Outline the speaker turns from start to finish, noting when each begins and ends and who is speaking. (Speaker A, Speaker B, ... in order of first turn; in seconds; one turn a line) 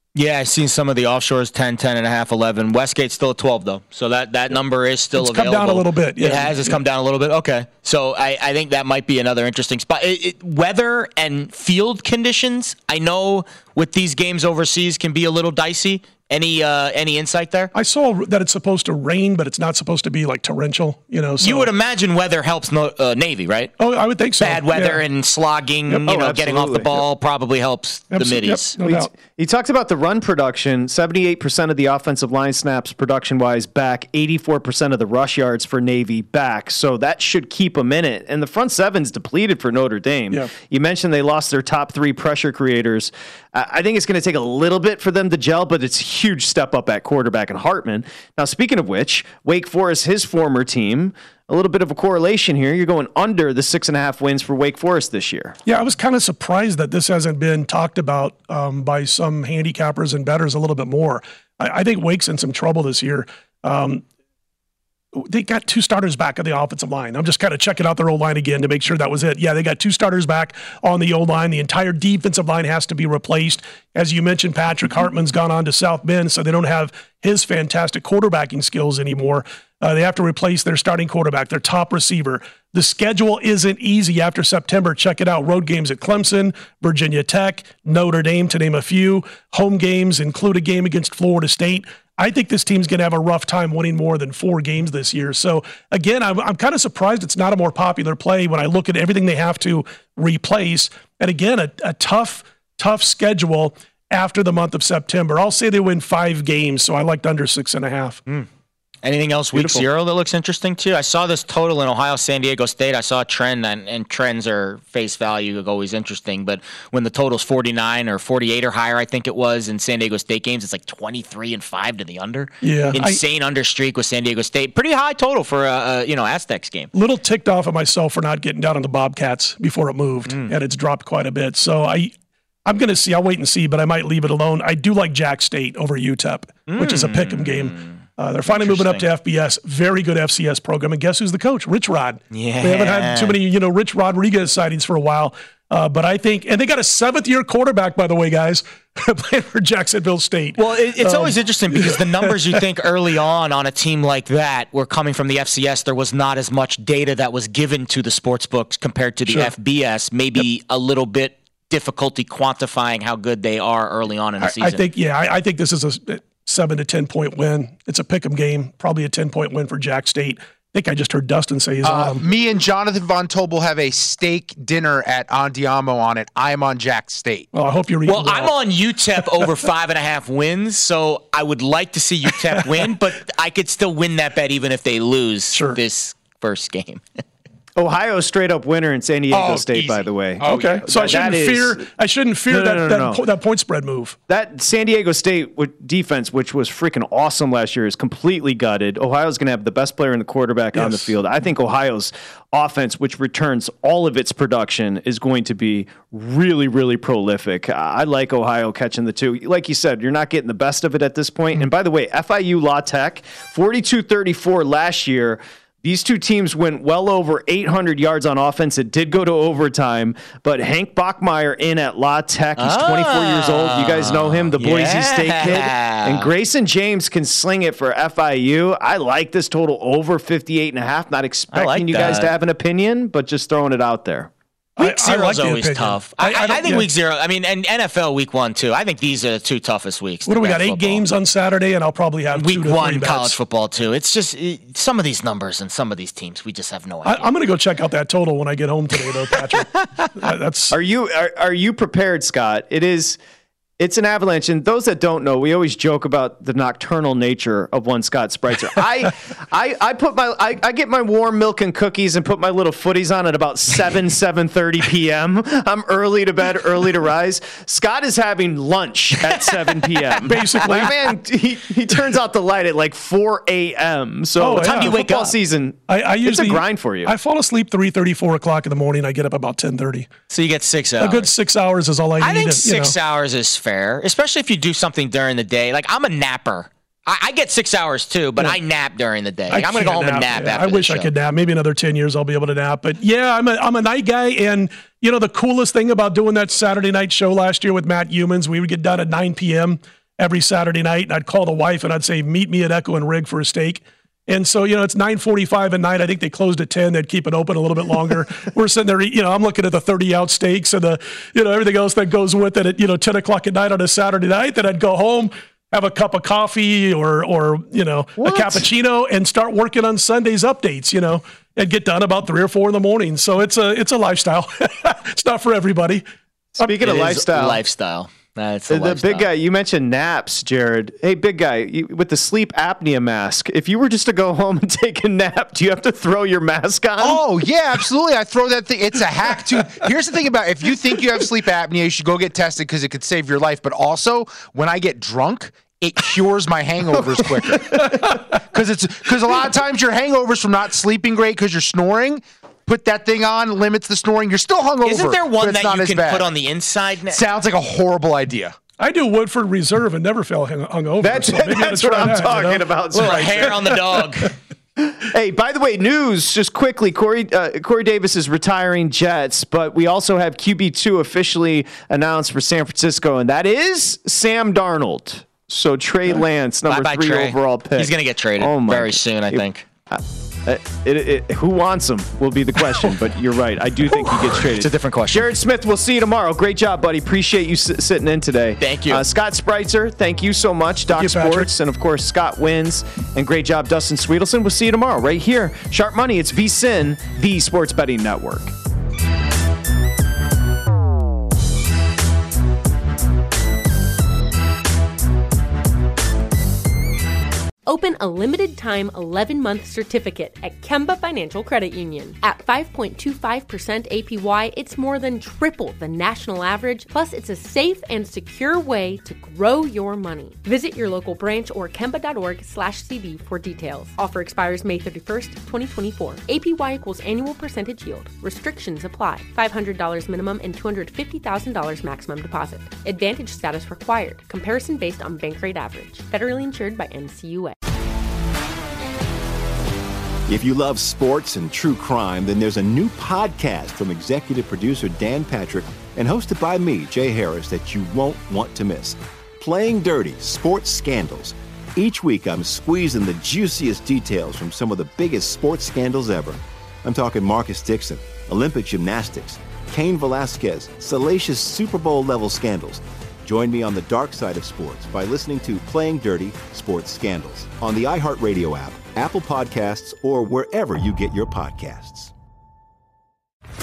Speaker A: 0.1-17.7
Speaker B: 5.1-6.8
Speaker B: 17.7-21.7
Speaker A: 21.4-23.7
Speaker B: 23.8-25.0
Speaker A: 24.4-28.8
Speaker C: 26.1-26.9
Speaker B: 28.1-29.1
Speaker C: 28.8-55.6
Speaker B: 55.7-64.0
Speaker B: 65.2-108.2
Speaker A: 109.0-126.9
Speaker B: 109.5-109.9
Speaker B: 122.6-123.2
Speaker B: 126.9-132.1
Speaker B: 132.7-152.6
Speaker A: 136.7-139.1
Speaker A: 142.3-143.4
Speaker A: 150.6-164.8
Speaker B: 159.3-159.5
Speaker B: 164.4-172.2
Speaker D: 171.8-177.5
Speaker B: 177.5-178.5
Speaker A: 178.1-187.2
Speaker B: 182.5-182.8
Speaker B: 185.5-185.8
Speaker C: 187.8-191.9
Speaker D: 189.3-191.4
Speaker B: 190.4-194.2
Speaker C: 192.5-193.2
Speaker C: 194.3-234.3
Speaker B: 200.8-201.1
Speaker A: 222.6-226.3
Speaker A: 231.5-232.3
Speaker B: 234.8-236.9
Speaker A: 234.8-241.0
Speaker B: 240.3-243.4
Speaker A: 242.3-247.3
Speaker B: 247.1-250.8
Speaker C: 250.7-253.2
Speaker C: 253.8-277.1
Speaker B: 270.3-270.9
Speaker B: 274.4-275.0
Speaker A: 274.5-275.3
Speaker B: 275.9-280.1
Speaker A: 280.3-281.3
Speaker B: 281.0-282.9
Speaker A: 282.2-291.1
Speaker B: 289.5-326.0
Speaker C: 326.6-327.6
Speaker A: 326.8-329.3
Speaker C: 328.7-337.2
Speaker D: 337.0-356.3
Speaker B: 347.5-348.2
Speaker A: 354.8-357.2
Speaker D: 357.1-358.6
Speaker B: 358.8-363.5
Speaker C: 361.0-363.6
Speaker A: 362.9-364.3
Speaker C: 364.8-398.5
Speaker A: 376.7-379.6
Speaker A: 384.1-385.3
Speaker A: 388.6-389.1
Speaker B: 390.9-391.5
Speaker E: 407.7-437.6
Speaker F: 440.3-472.1